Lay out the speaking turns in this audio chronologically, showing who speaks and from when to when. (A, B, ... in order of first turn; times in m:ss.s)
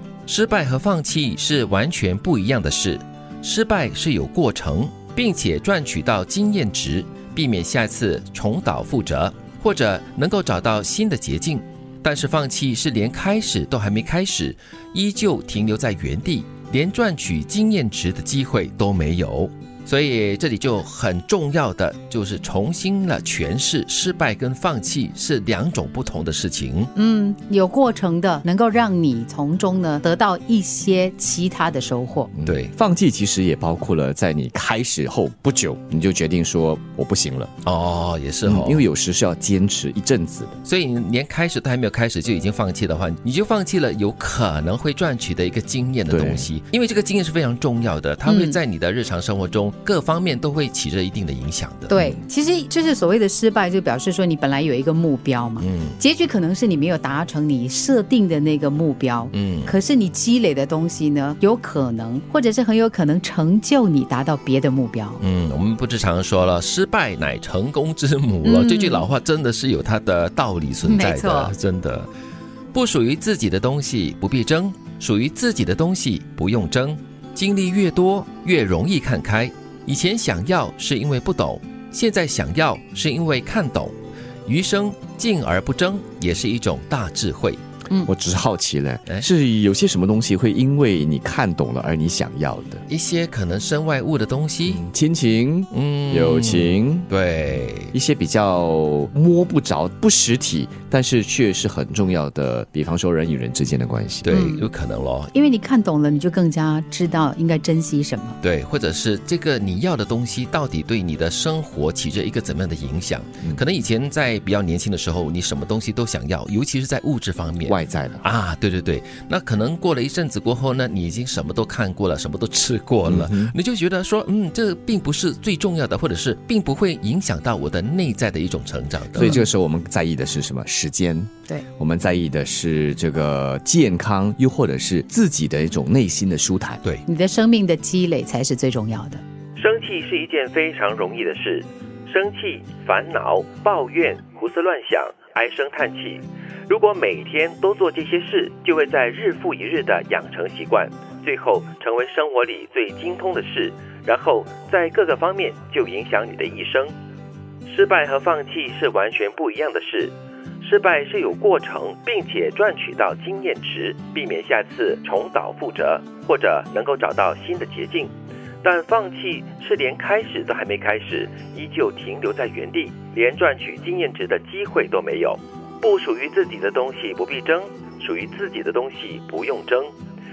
0:00.3-0:26.9 A
0:26.9-0:32.3 B
0:32.3-0:37.5 C
0:32.4-0:32.7 A
0:37.6-0:38.9 A
0:38.4-0:40.6 C
0:40.6-0:52.0 A
0:46.1-0:46.5 C
0:48.2-0:48.6 B
0:51.9-0:52.2 C
0:51.9-1:05.2 B
0:55.6-0:56.0 A
0:59.3-0:59.7 A
1:05.2-1:12.1 A
1:08.4-1:09.1 B
1:10.8-1:11.5 B
1:12.7-1:23.9 A
1:24.4-1:27.6 A
1:28.0-1:32.8 C
1:32.9-1:34.8 A
1:34.6-1:37.1 C
1:35.7-1:37.9 A
1:37.9-1:44.3 C
1:44.2-1:45.3 A
1:44.3-1:44.7 B
1:45.3-1:48.4 B
1:48.4-2:09.3 A
1:57.6-1:58.2 C
2:03.0-2:03.5 C
2:09.1-2:16.8 C
2:09.2-2:09.5 B
2:17.0-2:19.2 B
2:19.6-2:36.9 A
2:37.6-2:48.1 A
2:48.6-2:59.9 A